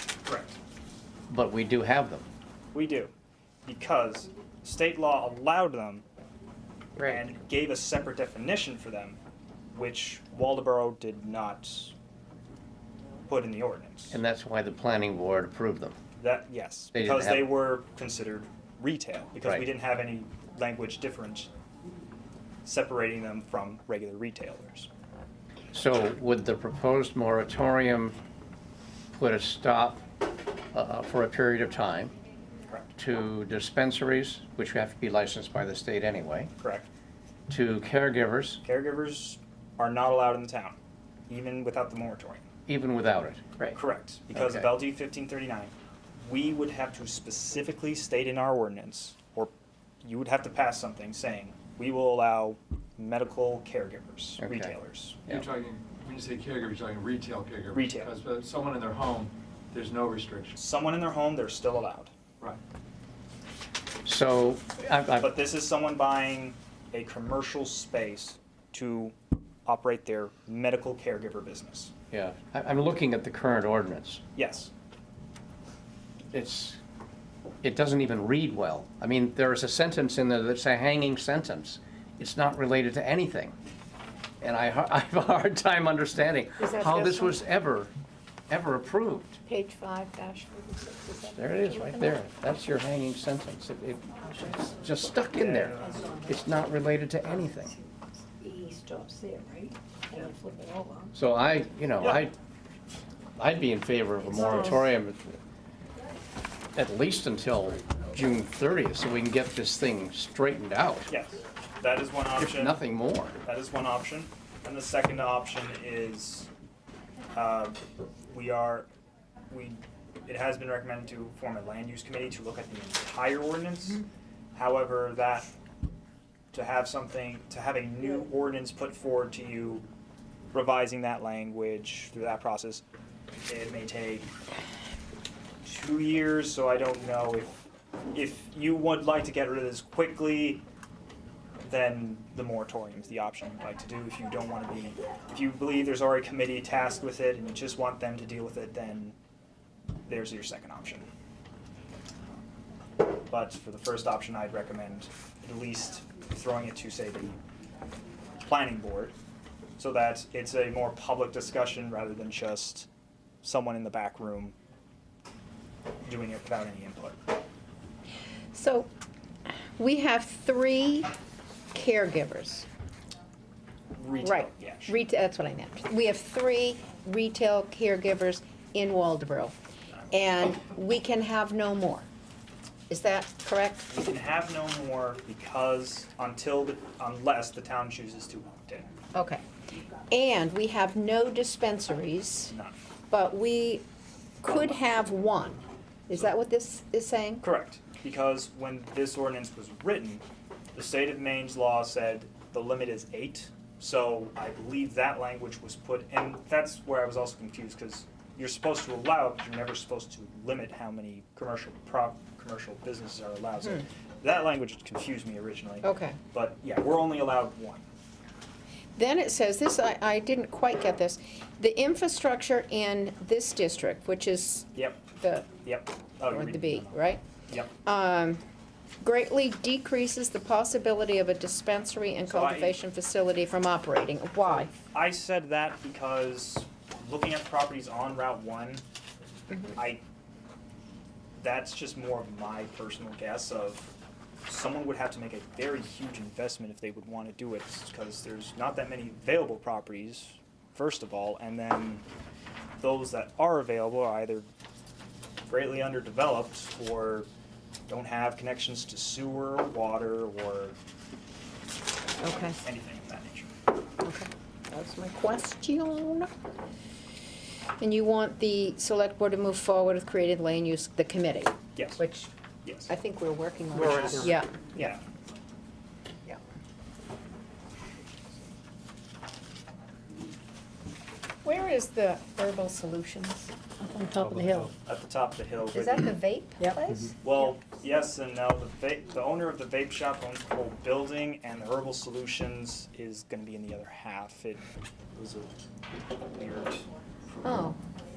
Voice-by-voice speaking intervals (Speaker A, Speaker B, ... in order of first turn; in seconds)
Speaker A: 0.2-0.6, 2.7-3.1, 3.6-6.0, 7.0-9.2, 9.7-11.9, 13.3-14.2, 16.2-21.5, 22.6-24.9, 36.6-36.9, 38.6-40.8, 41.3-42.4, 43.7-49.5, 50.0-55.2, 57.7-58.1, 60.6-62.1, 65.2-69.1, 69.7-71.9, 74.3-74.7, 95.3-96.2, 102.0-102.3, 111.1-112.8, 113.4-116.5, 117.3-118.9, 119.5-124.0, 124.5-125.5, 126.5-129.8, 130.5-132.8, 133.5-134.3, 135.6-137.6, 138.1-140.6, 141.6-149.1, 150.1-151.1, 153.3-157.4, 158.4-159.1, 159.8-162.9, 163.4-164.5, 166.0-167.2, 173.9-174.9, 183.9-188.9, 192.5-192.8, 194.5-194.8, 197.4-217.9, 224.7-225.0, 225.6-227.7, 232.2-232.8, 234.8-238.8, 239.7-240.0, 241.4-243.9, 244.4-252.1, 252.8-254.5, 255.5-257.3, 257.9-260.8, 262.6-263.5, 271.8-272.0, 272.6-272.9, 273.8-275.0, 284.8-286.1, 287.2-295.5, 296.3-296.8
Speaker B: 1.3-2.3, 7.0-7.2, 14.1-16.0, 16.9-17.5, 25.7-28.1, 29.1-30.0, 30.7-32.1, 33.0-36.5, 37.5-38.6, 42.7-43.8, 44.3-44.7, 54.4-54.7, 64.0-65.3, 72.1-74.2, 76.3-76.8, 77.6-83.5, 84.4-87.9, 88.5-89.4, 91.3-97.7, 101.1-102.3, 103.4-105.4, 106.8-111.1, 112.4-113.4
Speaker C: 55.3-60.6
Speaker D: 86.6-87.4, 89.5-92.2, 168.5-168.9, 169.8-171.1, 171.7-172.7, 174.2-179.6, 180.1-182.1, 182.9-183.9, 189.1-189.4, 190.1-192.5, 193.1-193.8, 194.4-197.4, 215.8-216.2, 218.9-225.5, 226.3-227.2, 227.8-228.4, 229.0-234.7, 262.2-262.6, 264.0-266.3, 267.8-272.3, 272.9-274.9, 281.4-283.5, 284.3-284.6, 285.7-287.2, 297.4-297.8
Speaker E: 98.4-101.1, 283.8-284.6